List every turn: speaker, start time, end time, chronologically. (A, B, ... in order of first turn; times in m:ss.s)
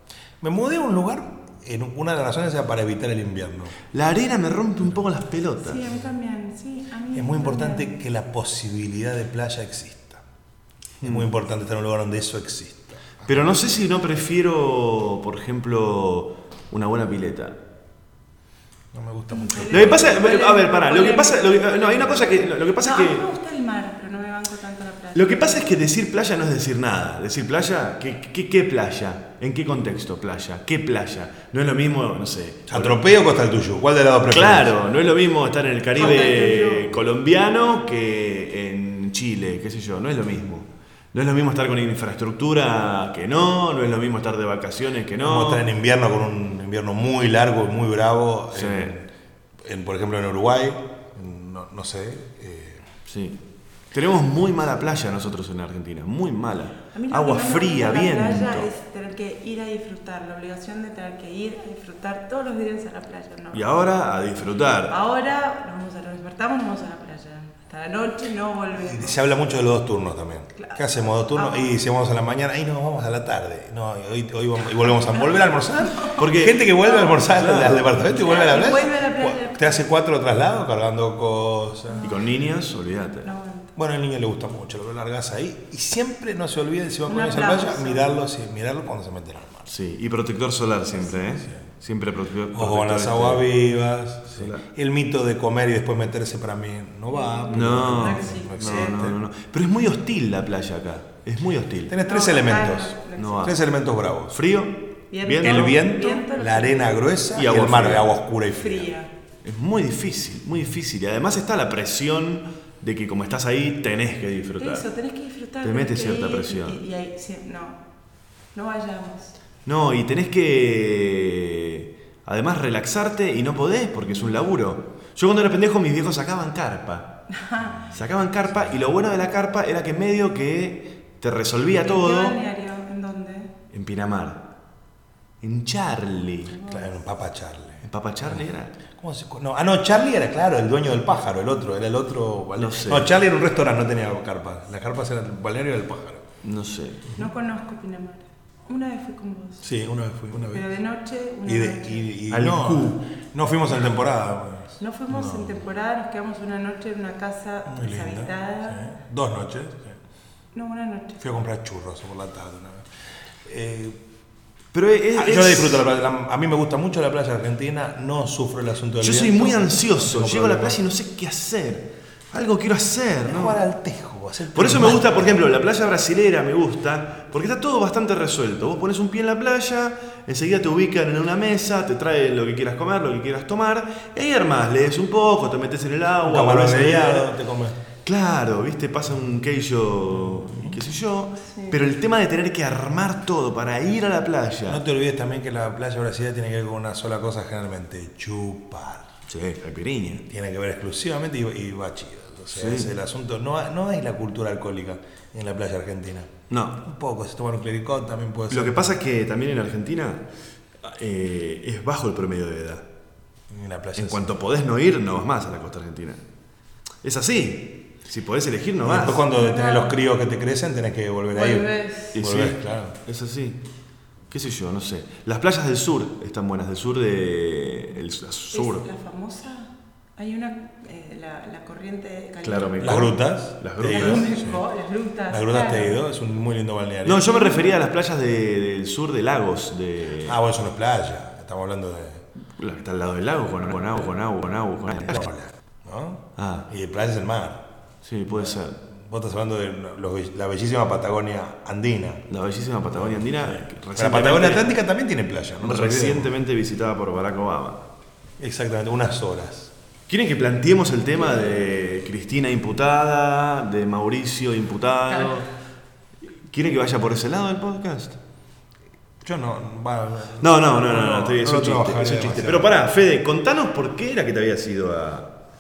0:00.4-0:03.8 A
0:03.9-0:05.9 B
0:05.6-0:08.0 C
0:07.1-0:10.2 A
0:11.0-0:11.3 B
0:11.0-0:13.9 A
0:13.3-0:17.6 B
0:18.9-0:20.2 A
0:19.3-0:25.7 C
0:19.7-0:23.3 B
0:25.2-0:33.0 B
0:32.7-0:34.7 A
0:34.3-0:45.7 B
0:36.0-0:37.0 C
0:45.2-0:49.1 A
0:48.5-0:49.0 B
0:49.6-0:52.9 A
0:53.1-0:53.4 B
0:53.9-0:58.7 B
0:56.9-1:03.8 C
1:03.5-1:05.0 B
1:04.8-1:09.1 C
1:08.8-1:22.1 A
1:10.6-1:10.8 C
1:11.4-1:11.7 C
1:15.8-1:16.2 C
1:16.2-1:17.9 B
1:16.8-1:17.2 C
1:18.2-1:19.9 C
1:21.9-1:22.2 C
1:22.0-1:23.3 B
1:23.2-1:23.7 C
1:23.8-1:29.7 A
1:27.1-1:28.1 C
1:29.7-1:33.5 B
1:32.5-1:39.2 A
1:34.3-1:34.6 B
1:37.1-1:39.0 C
1:37.5-1:41.9 B
1:41.9-1:44.4 A
1:42.0-1:43.6 C
1:43.2-1:43.6 B
1:44.3-1:45.8 B
1:45.1-1:47.0 C
1:45.4-1:48.9 A
1:47.3-1:48.1 B
1:48.6-1:49.1 C
1:49.4-1:54.9 B
1:54.6-1:57.8 C
1:55.6-1:56.8 B
1:58.5-1:59.4 C
1:59.7-2:07.2 B
2:07.3-2:07.9 C
2:07.9-2:12.4 B
2:11.8-2:13.5 C
2:13.7-2:14.4 B
2:15.4-2:16.6 B
2:16.5-2:17.0 C
2:16.7-2:18.4 A
2:17.8-2:18.7 B
2:18.9-2:26.3 A
2:22.6-2:23.1 B
2:26.4-2:27.1 B
2:27.2-2:29.7 C
2:29.6-2:30.8 A
2:30.4-2:32.0 C
2:31.4-2:35.6 A
2:32.3-2:33.0 B
2:34.8-2:38.9 C
2:37.7-2:40.0 A
2:40.5-2:41.2 C
2:41.2-2:42.9 A
2:43.4-2:44.0 A
2:44.7-2:45.9 B
2:45.1-2:50.8 A
2:49.0-2:53.6 B
2:53.2-2:55.4 A
2:54.6-3:07.3 B
3:06.2-3:07.8 A
3:08.0-3:14.8 B
3:10.5-3:10.8 A
3:11.5-3:11.8 C
3:14.7-3:19.1 A
3:19.3-3:20.2 B
3:20.2-3:29.0 A
3:22.5-3:22.9 B
3:26.5-3:26.8 B
3:28.5-3:30.2 B
3:30.8-3:32.9 B
3:33.5-3:34.3 A
3:34.0-3:36.2 B
3:37.0-3:39.2 B
3:38.8-3:43.0 A
3:39.3-3:40.0 C
3:41.3-3:42.2 C
3:42.1-3:43.6 B
3:44.3-3:48.9 B
3:48.5-3:53.1 C
3:52.4-3:54.3 B
3:52.8-3:54.6 A
3:53.9-3:56.0 C
3:55.3-3:57.4 A
3:57.0-4:00.4 B
3:57.3-3:57.7 C
4:00.2-4:02.2 A
4:02.6-4:05.3 B
4:05.1-4:07.7 A
4:06.4-4:06.7 B
4:08.0-4:08.8 B
4:08.3-4:12.2 A
4:12.3-4:14.7 B
4:12.9-4:16.3 A
4:15.6-4:17.8 B
4:18.4-4:19.7 A
4:20.1-4:25.5 B
4:26.5-4:28.2 B
4:29.2-4:32.8 A
4:30.4-4:35.3 B